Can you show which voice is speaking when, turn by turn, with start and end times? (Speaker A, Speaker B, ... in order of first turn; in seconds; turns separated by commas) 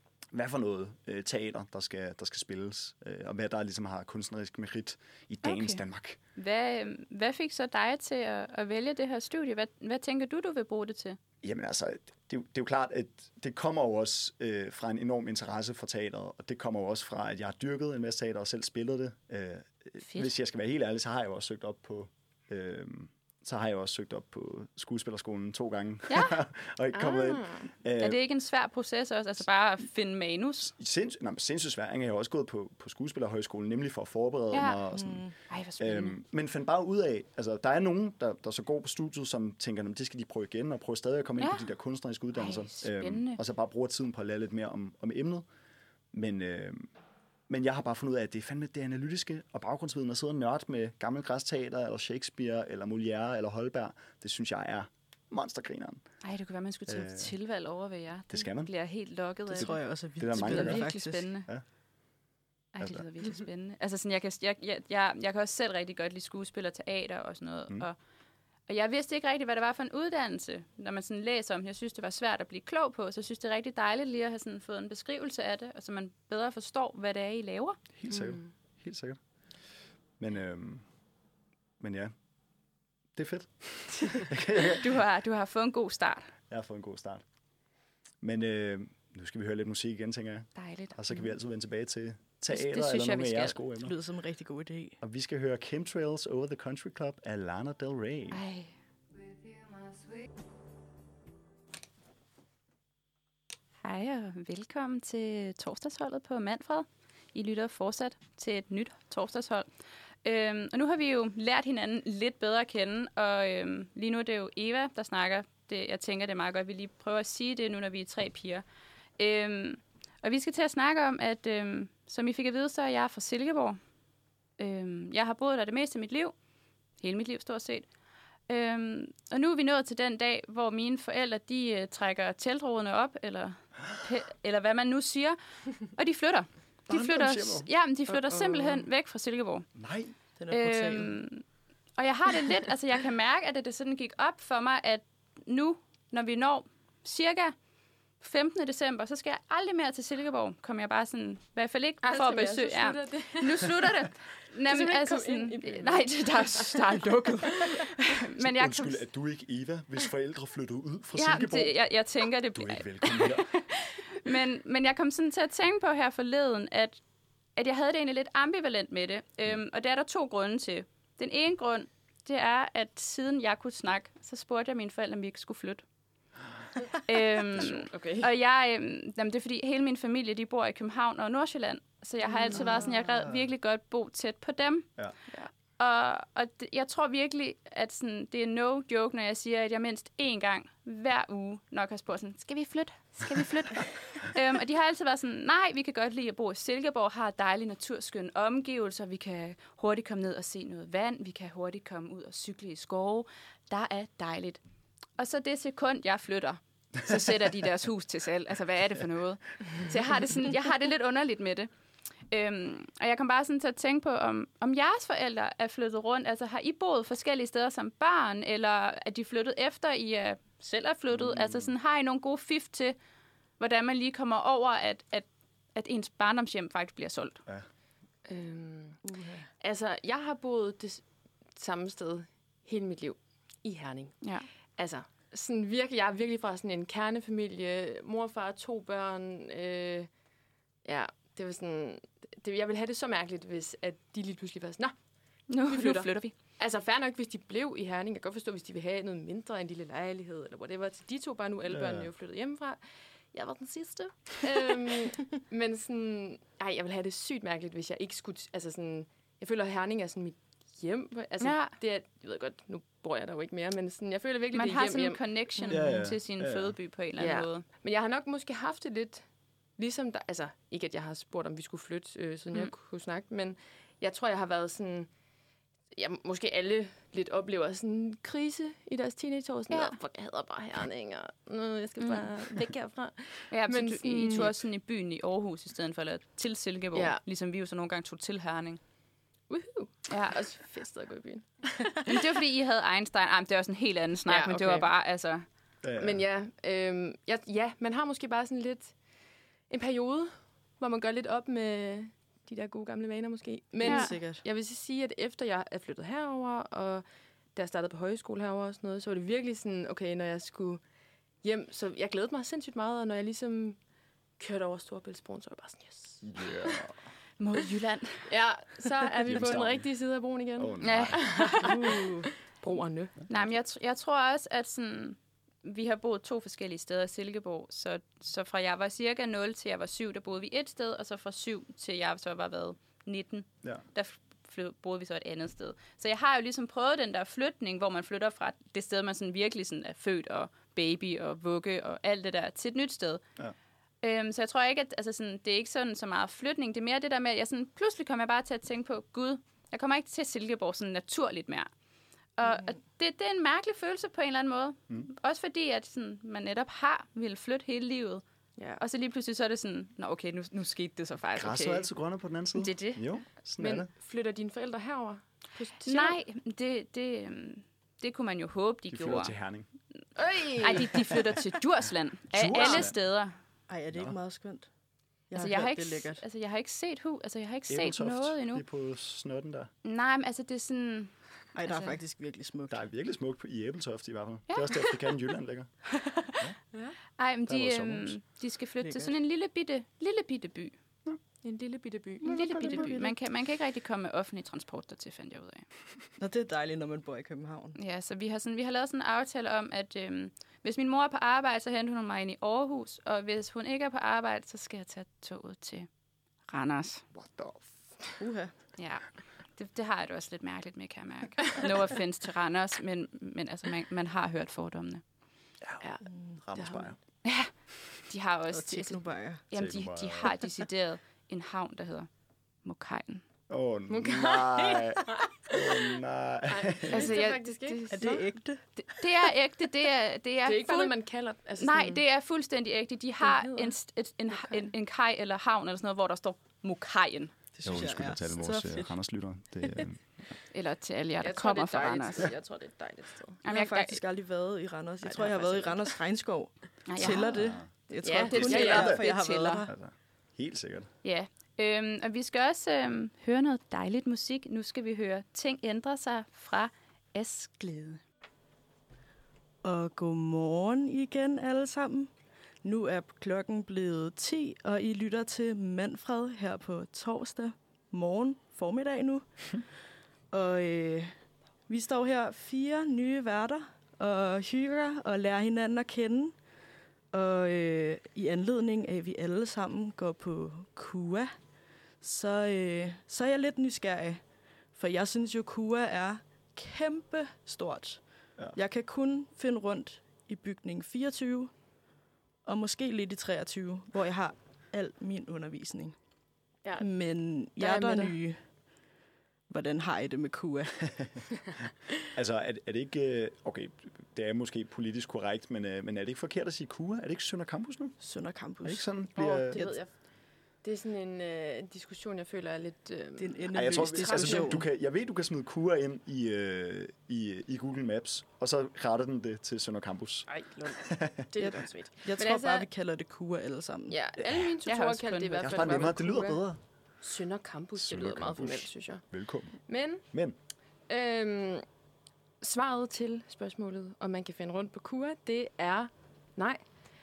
Speaker A: 0.3-6.2, Speaker B: 5.4-5.8, Speaker B: 6.4-11.2, Speaker A: 11.4-28.2, Speaker B: 20.0-20.3, Speaker B: 26.1-26.4, Speaker C: 26.9-27.7, Speaker B: 28.0-30.7, Speaker A: 30.7-45.5, Speaker B: 34.5-34.8, Speaker D: 35.0-35.3, Speaker B: 35.4-36.2, Speaker B: 41.4-41.6, Speaker B: 42.3-43.4, Speaker A: 46.1-46.9, Speaker A: 47.5-56.0, Speaker B: 56.2-61.5, Speaker A: 56.9-57.3, Speaker A: 58.3-58.7, Speaker A: 59.5-61.0, Speaker D: 59.5-61.3, Speaker B: 62.8-68.0, Speaker A: 62.8-63.0, Speaker B: 68.7-77.8, Speaker A: 78.0-79.2, Speaker C: 78.1-78.5, Speaker A: 80.2-80.8, Speaker A: 81.8-82.1, Speaker A: 83.1-85.0, Speaker B: 84.7-86.3, Speaker A: 86.5-87.2, Speaker A: 88.2-94.0, Speaker B: 90.6-91.0, Speaker B: 92.5-93.6, Speaker D: 93.8-95.0, Speaker A: 95.0-98.4, Speaker B: 98.3-98.7, Speaker B: 103.8-109.7, Speaker B: 110.2-118.6, Speaker B: 119.2-123.8, Speaker B: 124.6-126.3, Speaker B: 127.0-127.9, Speaker B: 128.5-139.7, Speaker A: 136.9-137.7, Speaker A: 139.8-140.1, Speaker D: 140.4-141.2, Speaker B: 140.5-141.4, Speaker B: 142.0-147.6, Speaker B: 148.2-159.0, Speaker C: 152.0-154.1, Speaker C: 154.7-157.0, Speaker A: 158.4-161.8, Speaker B: 161.1-167.0, Speaker A: 162.5-163.5, Speaker B: 167.6-175.8, Speaker B: 177.0-204.6, Speaker A: 177.6-177.9, Speaker C: 177.7-178.3, Speaker C: 182.3-182.8, Speaker A: 182.6-183.5, Speaker B: 205.2-211.7, Speaker B: 212.3-223.0, Speaker A: 221.1-221.7, Speaker B: 223.6-227.4, Speaker C: 228.3-229.0, Speaker D: 229.1-229.5, Speaker C: 229.6-231.0, Speaker C: 231.6-234.2, Speaker B: 234.2-234.5, Speaker C: 234.8-240.1, Speaker C: 240.8-244.9, Speaker B: 245.5-246.3, Speaker C: 245.7-252.8, Speaker A: 251.7-252.1, Speaker C: 253.3-265.8, Speaker B: 261.4-261.7, Speaker B: 264.5-267.6, Speaker A: 265.7-266.8, Speaker C: 267.2-269.2, Speaker C: 269.8-275.1, Speaker C: 275.9-284.5, Speaker B: 279.7-280.0, Speaker B: 282.0-282.3, Speaker B: 283.5-288.8, Speaker C: 286.9-287.2, Speaker C: 289.5-292.3, Speaker B: 290.1-290.4, Speaker B: 292.1-295.4, Speaker C: 294.3-294.9, Speaker A: 295.8-296.2, Speaker C: 296.0-298.9, Speaker C: 299.7-307.0, Speaker B: 303.8-304.2, Speaker D: 303.8-304.4, Speaker C: 307.6-310.8, Speaker C: 311.4-313.8, Speaker C: 314.4-316.8, Speaker A: 316.2-316.9, Speaker B: 317.4-318.3, Speaker C: 318.3-323.2, Speaker A: 319.2-319.9, Speaker A: 320.6-321.4, Speaker B: 320.8-321.7, Speaker D: 321.6-322.3, Speaker B: 323.3-343.2, Speaker B: 344.0-351.7, Speaker B: 352.4-358.2, Speaker B: 358.8-361.9, Speaker A: 361.4-363.9, Speaker B: 362.6-363.1, Speaker C: 363.6-366.2, Speaker B: 365.9-369.3, Speaker A: 368.9-369.7, Speaker C: 370.2-371.2, Speaker B: 370.6-373.4, Speaker A: 372.3-372.9, Speaker D: 373.7-374.7, Speaker D: 375.3-376.2, Speaker B: 375.3-378.6, Speaker A: 377.7-379.7, Speaker B: 379.8-382.0, Speaker D: 381.6-382.8, Speaker A: 382.7-385.7, Speaker B: 384.5-385.0, Speaker B: 385.9-386.4, Speaker B: 387.2-390.8, Speaker A: 387.5-388.1, Speaker D: 388.8-389.1, Speaker C: 391.4-392.9, Speaker B: 392.2-395.7, Speaker D: 392.5-393.1, Speaker D: 396.2-397.8, Speaker B: 397.8-405.9, Speaker B: 406.5-407.1, Speaker A: 407.1-407.8, Speaker D: 408.2-408.5, Speaker B: 408.8-415.0, Speaker D: 416.1-416.4, Speaker A: 416.4-417.0, Speaker C: 416.6-416.9, Speaker B: 417.2-417.5, Speaker B: 418.1-422.1, Speaker D: 418.5-419.4, Speaker A: 419.5-420.3, Speaker B: 422.6-423.2, Speaker A: 423.5-427.2, Speaker C: 423.9-425.9, Speaker C: 426.5-428.2, Speaker B: 426.9-430.9, Speaker D: 427.9-428.6, Speaker C: 430.4-432.0, Speaker B: 431.6-437.3, Speaker C: 433.2-433.7, Speaker C: 434.3-434.6, Speaker D: 437.6-438.9, Speaker A: 437.6-440.0, Speaker B: 440.5-442.3, Speaker C: 441.2-443.4, Speaker B: 443.4-444.0, Speaker D: 443.5-449.7, Speaker C: 445.0-445.9, Speaker B: 446.9-447.4, Speaker A: 447.3-447.7, Speaker C: 448.0-448.9, Speaker A: 448.3-449.0, Speaker B: 448.3-449.7, Speaker A: 449.7-450.9, Speaker B: 451.0-458.0, Speaker D: 459.6-462.1, Speaker D: 462.6-469.6, Speaker D: 470.3-471.1, Speaker D: 471.7-476.3, Speaker D: 477.1-481.3, Speaker D: 482.0-484.2, Speaker D: 484.7-488.0, Speaker D: 488.5-491.5, Speaker D: 492.4-495.9, Speaker D: 496.8-498.4, Speaker C: 497.6-498.2, Speaker D: 499.5-501.0, Speaker A: 502.1-507.9, Speaker D: 508.0-508.9, Speaker A: 508.6-509.6, Speaker C: 509.1-509.9, Speaker D: 509.5-509.8, Speaker C: 510.6-514.6, Speaker D: 513.2-514.6, Speaker A: 513.5-521.2, Speaker C: 520.3-522.7, Speaker D: 521.4-524.0, Speaker C: 523.9-526.4, Speaker A: 524.2-524.5, Speaker B: 524.6-525.9, Speaker A: 525.4-526.6, Speaker C: 527.0-529.0, Speaker A: 527.8-529.5, Speaker C: 529.6-530.0, Speaker A: 530.1-530.4, Speaker C: 530.9-531.6, Speaker C: 532.4-536.6